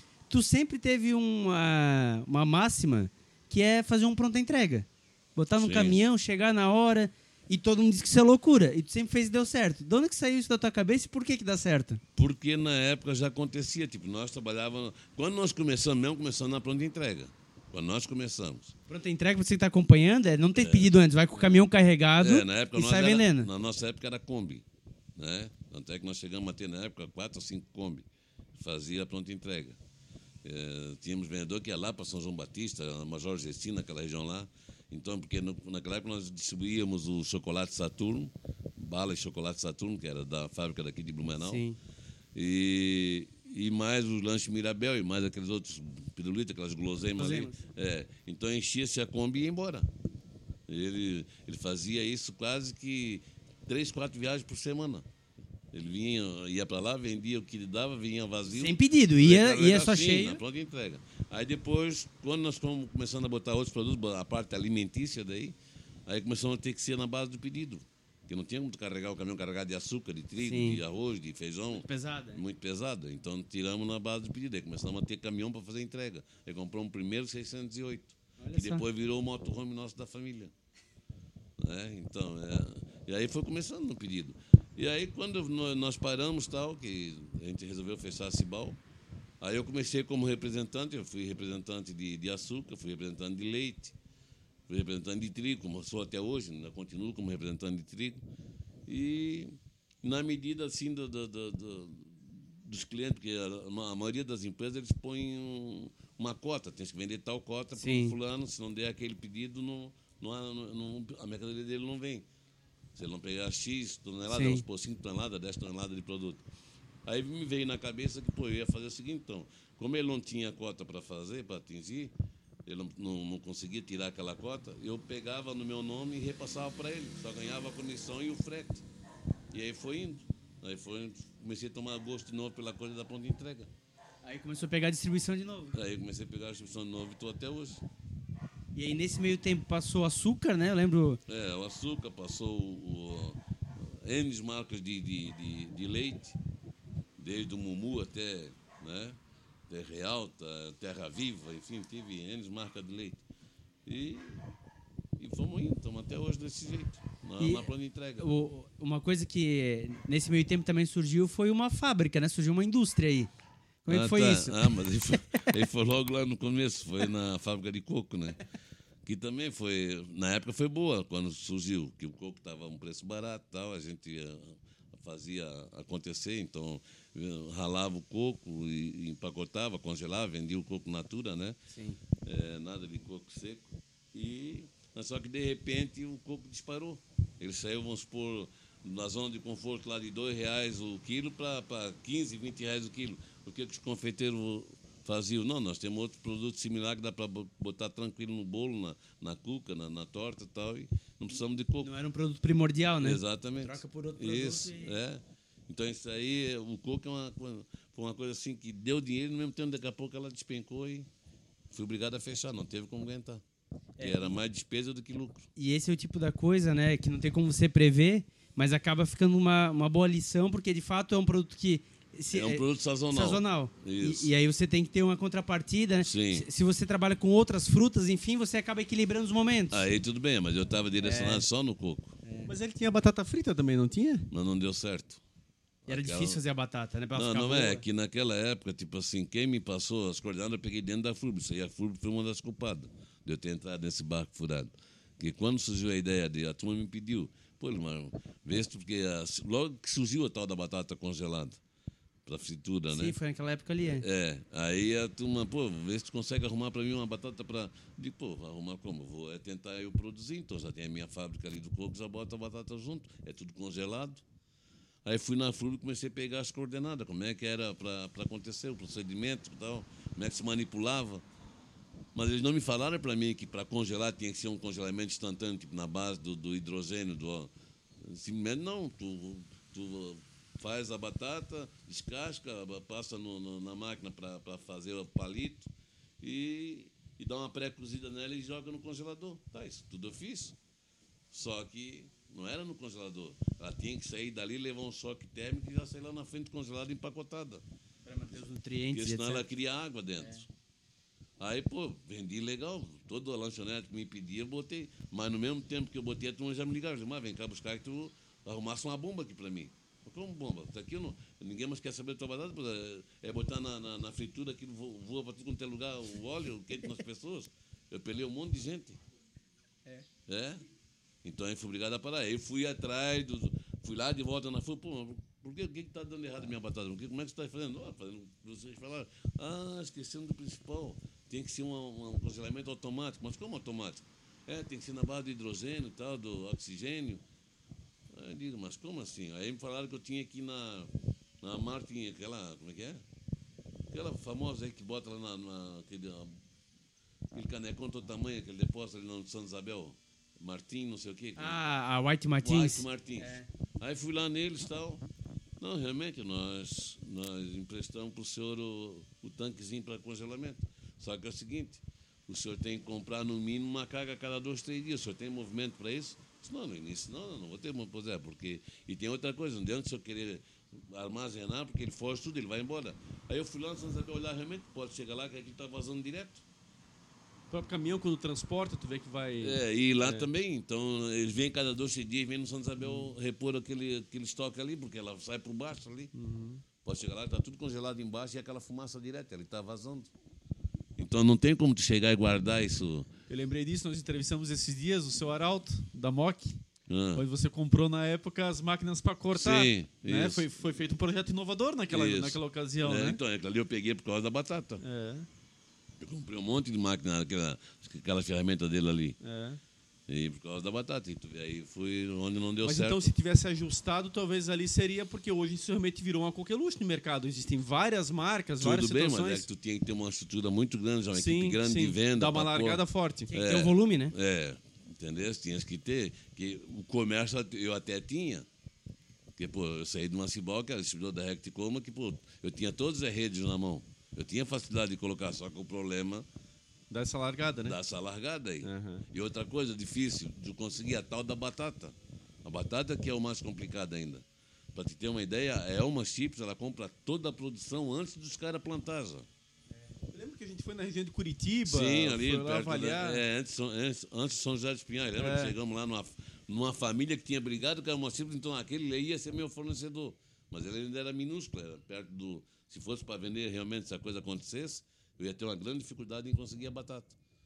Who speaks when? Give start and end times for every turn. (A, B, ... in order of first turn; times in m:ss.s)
0:00.3-0:12.0 A
0:05.6-0:06.0 B
0:12.1-0:18.8 B
0:18.9-0:23.5 A
0:20.6-0:21.6 B
0:22.2-0:24.6 B
0:25.2-0:28.0 B
0:28.6-0:29.8 B
0:30.4-0:41.6 B
0:41.4-0:41.8 A
0:42.3-0:49.9 B
0:47.1-0:47.6 A
0:50.7-0:55.0 B
0:55.7-1:20.5 B
0:58.4-1:00.4 A
1:10.4-1:10.8 A
1:11.7-1:12.4 A
1:18.4-1:18.8 A
1:21.6-1:28.8 B
1:29.4-1:33.9 B
1:34.7-1:38.2 B
1:38.9-1:52.3 B
1:47.8-1:48.2 A
1:52.9-1:56.4 B
1:54.3-1:54.6 A
1:57.0-2:02.1 B
2:02.6-2:08.8 B
2:09.5-2:13.7 B
2:14.2-2:15.8 A
2:15.7-2:17.8 B
2:18.7-2:21.2 A
2:21.3-2:26.4 B
2:27.2-2:29.2 B
2:29.7-2:33.2 B
2:33.9-2:34.4 B
2:35.2-2:38.3 B
2:37.4-2:43.3 A
2:43.8-2:45.4 A
2:43.9-2:48.4 B
2:49.0-3:01.6 B
3:01.7-3:02.0 A
3:02.2-3:21.9 B
3:21.8-3:24.9 A
3:23.0-3:31.1 B
3:31.7-3:33.4 B
3:34.0-3:34.4 A
3:34.0-3:35.5 B
3:35.6-3:49.9 A
3:42.3-3:44.3 B
3:46.0-3:46.5 B
3:49.7-3:52.2 B
3:51.0-3:51.4 A
3:52.2-3:52.5 A
3:52.4-3:54.3 C
3:54.3-3:55.2 B
3:55.8-3:56.4 B
3:55.9-3:57.8 A
3:57.1-4:11.6 B
4:12.2-4:13.2 B
4:12.9-4:14.0 A
4:13.8-4:24.2 B
4:25.0-4:31.2 B
4:32.1-4:45.7 B
4:46.2-4:50.6 B
4:51.3-4:57.6 B
4:58.0-4:59.4 A
4:58.9-5:00.5 B
5:01.4-5:19.0 B
5:20.3-5:20.6 B
5:21.2-5:37.2 B
5:38.1-5:40.9 B
5:41.4-5:43.0 B
5:43.9-5:46.3 B
5:47.3-5:51.6 B
5:51.4-5:53.5 A
5:52.4-5:55.0 B
5:55.6-6:16.4 B
6:17.5-6:20.3 C
6:19.4-6:26.1 B
6:22.8-6:23.1 C
6:26.1-6:26.6 C
6:26.8-6:30.1 B
6:31.0-6:33.1 B
6:33.3-6:36.6 C
6:36.9-6:37.2 B
6:37.1-6:43.2 C
6:39.3-6:40.5 B
6:41.9-6:44.8 B
6:44.8-6:45.3 C
6:46.0-6:49.2 B
6:49.2-6:49.6 C
6:50.1-6:53.1 B
6:52.6-6:59.5 C
6:58.6-7:08.5 B
7:01.1-7:03.3 C
7:03.3-7:04.1 A
7:09.4-7:16.3 B
7:16.9-7:17.8 C
7:17.6-7:24.2 B
7:18.6-7:19.0 C
7:24.7-7:29.3 B
7:30.1-7:33.2 C
7:31.6-7:47.2 B
7:35.2-7:35.6 C